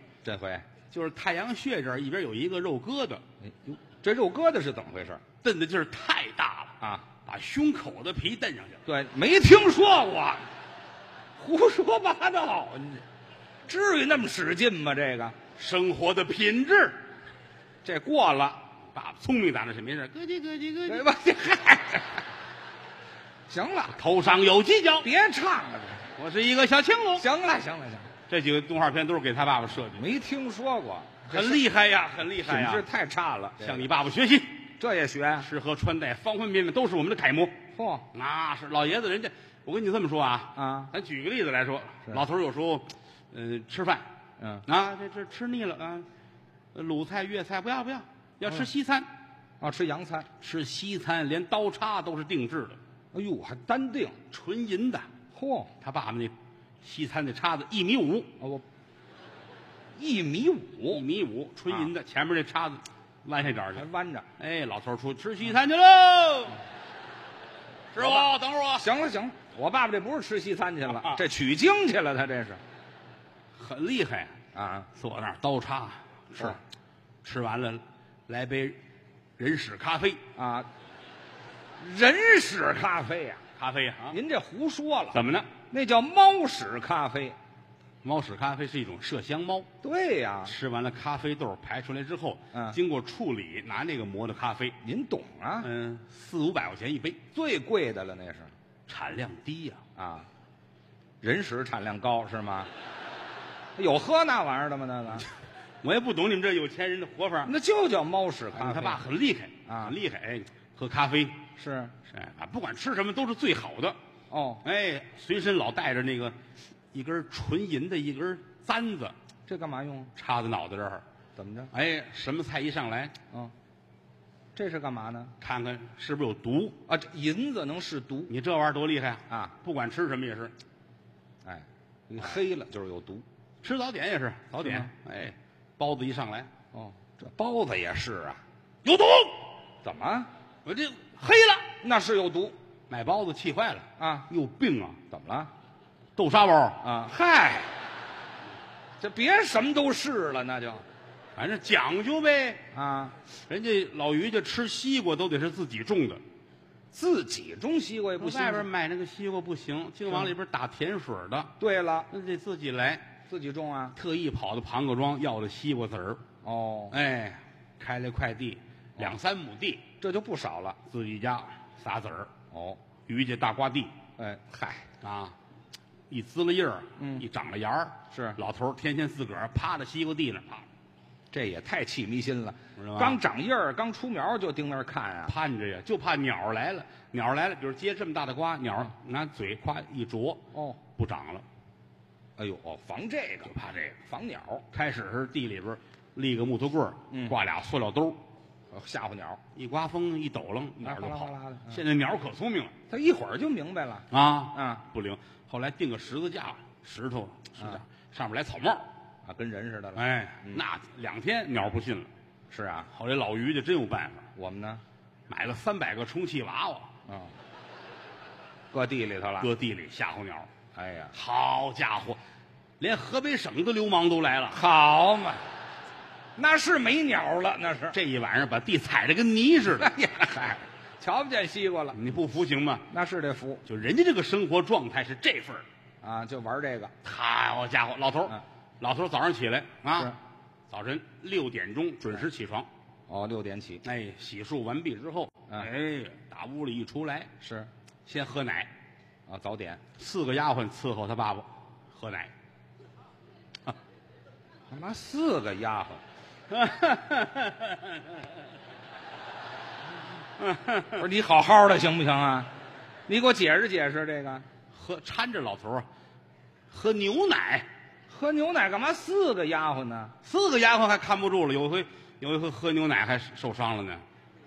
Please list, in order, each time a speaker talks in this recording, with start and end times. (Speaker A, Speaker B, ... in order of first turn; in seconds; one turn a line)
Speaker A: 0.2-0.7
Speaker B: 0.9-3.2
Speaker A: 3.4-5.2
Speaker B: 5.4-8.8
Speaker A: 6.8-7.1
Speaker A: 8.9-10.4
Speaker A: 11.4-13.0
Speaker A: 13.7-15.4
Speaker B: 15.6-17.0
Speaker A: 17.8-18.6
Speaker B: 18.9-21.1
Speaker A: 20.9-22.2
Speaker A: 23.5-24.0
Speaker B: 23.9-25.1
Speaker A: 25.0-26.0
Speaker B: 26.2-27.3
Speaker A: 27.2-28.1
Speaker B: 28.3-30.0
Speaker A: 29.9-31.6
Speaker B: 31.3-32.8
Speaker A: 32.4-33.9
Speaker B: 33.6-34.7
Speaker A: 34.8-35.5
Speaker B: 35.4-37.6
Speaker A: 37.8-38.1
Speaker B: 38.1-44.1
Speaker A: 40.6-40.9
Speaker A: 44.4-44.6
Speaker B: 44.7-46.1
Speaker B: 46.7-49.1
Speaker A: 49.6-50.3
Speaker B: 50.4-52.8
Speaker A: 53.1-54.2
Speaker B: 54.3-55.1
Speaker A: 55.3-55.7
Speaker B: 55.8-58.3
Speaker A: 60.0-61.0
Speaker B: 60.9-63.9
Speaker A: 63.8-64.3
Speaker B: 64.4-66.6
Speaker B: 67.9-68.9
Speaker A: 68.0-72.6
Speaker B: 70.9-71.2
Speaker B: 73.6-74.3
Speaker A: 74.5-74.9
Speaker B: 74.9-76.6
Speaker B: 77.2-78.8
Speaker B: 79.4-80.2
Speaker A: 80.4-80.7
Speaker A: 81.8-83.4
Speaker B: 83.6-84.2
Speaker A: 84.1-87.4
Speaker B: 85.1-85.5
Speaker B: 88.0-89.7
Speaker A: 89.8-90.5
Speaker B: 90.5-94.8
Speaker A: 92.5-92.8
Speaker A: 94.8-95.7
Speaker B: 95.6-97.2
Speaker A: 97.3-98.5
Speaker B: 98.9-99.8
Speaker A: 100.0-100.3
Speaker A: 101.2-102.7
Speaker A: 103.8-105.3
Speaker B: 105.8-107.5
Speaker A: 107.5-109.0
Speaker B: 108.5-111.4
Speaker A: 109.7-110.0
Speaker A: 111.6-112.0
Speaker B: 112.1-114.0
Speaker A: 114.3-114.6
Speaker B: 114.6-116.4
Speaker B: 116.9-119.2
Speaker A: 119.5-120.1
Speaker B: 120.2-121.0
Speaker A: 121.4-121.7
Speaker B: 121.7-123.1
Speaker A: 124.5-125.3
Speaker B: 125.4-126.8
Speaker A: 126.9-128.3
Speaker B: 128.3-130.5
Speaker A: 129.3-129.6
Speaker A: 131.4-133.2
Speaker B: 133.6-136.5
Speaker A: 134.6-134.9
Speaker A: 136.7-138.4
Speaker B: 138.8-139.5
Speaker A: 139.8-140.3
Speaker B: 140.7-141.7
Speaker A: 141.8-142.6
Speaker B: 142.9-145.0
Speaker A: 144.0-144.3
Speaker A: 145.1-145.5
Speaker B: 146.2-146.8
Speaker A: 146.8-147.8
Speaker A: 149.0-150.8
Speaker B: 151.4-152.6
Speaker A: 152.7-153.2
Speaker B: 153.4-156.2
Speaker A: 156.9-158.7
Speaker B: 158.2-161.5
Speaker A: 161.6-162.1
Speaker B: 162.1-163.1
Speaker A: 163.3-164.0
Speaker B: 163.9-166.2
Speaker A: 166.4-167.0
Speaker B: 166.9-169.9
Speaker A: 170.0-170.8
Speaker B: 170.9-172.3
Speaker A: 172.5-172.8
Speaker B: 173.1-173.9
Speaker A: 174.2-174.9
Speaker B: 175.0-175.3
Speaker B: 176.1-180.7
Speaker A: 177.0-177.2
Speaker A: 178.1-178.4
Speaker A: 181.3-185.3
Speaker B: 182.8-183.2
Speaker B: 185.3-190.4
Speaker A: 190.5-190.8
Speaker B: 190.9-191.4
Speaker A: 192.4-193.5
Speaker B: 193.5-194.0
Speaker A: 194.1-194.7
Speaker B: 194.7-198.2
Speaker A: 197.1-197.4
Speaker A: 198.7-199.4
Speaker B: 199.5-202.7
Speaker A: 200.8-201.8
Speaker A: 202.9-204.8
Speaker B: 204.1-208.9
Speaker A: 209.2-210.6
Speaker B: 209.9-212.1
Speaker A: 212.5-212.9
Speaker B: 212.9-214.3
Speaker A: 214.4-214.8
Speaker B: 215.3-216.9
Speaker A: 217.1-217.3
Speaker A: 218.7-219.5
Speaker B: 219.4-220.5
Speaker A: 220.7-221.1
Speaker B: 221.1-222.2
Speaker B: 222.8-224.6
Speaker A: 224.5-225.4
Speaker A: 226.4-228.0
Speaker B: 227.9-229.9
Speaker A: 229.8-232.0
Speaker B: 231.9-232.8
Speaker A: 232.9-233.6
Speaker B: 233.7-235.7
Speaker A: 236.0-236.9
Speaker B: 237.0-240.2
Speaker B: 240.7-242.7
Speaker A: 243.1-243.8
Speaker B: 243.8-247.3
Speaker A: 247.4-247.7
Speaker B: 248.1-248.7
Speaker A: 249.3-249.8
Speaker B: 250.0-252.3
Speaker A: 254.7-256.0
Speaker B: 256.5-258.2
Speaker B: 260.4-261.1
Speaker A: 260.9-262.5
Speaker A: 263.1-264.5
Speaker B: 264.7-265.9
Speaker B: 266.7-267.7
Speaker A: 268.1-270.1
Speaker B: 270.2-274.0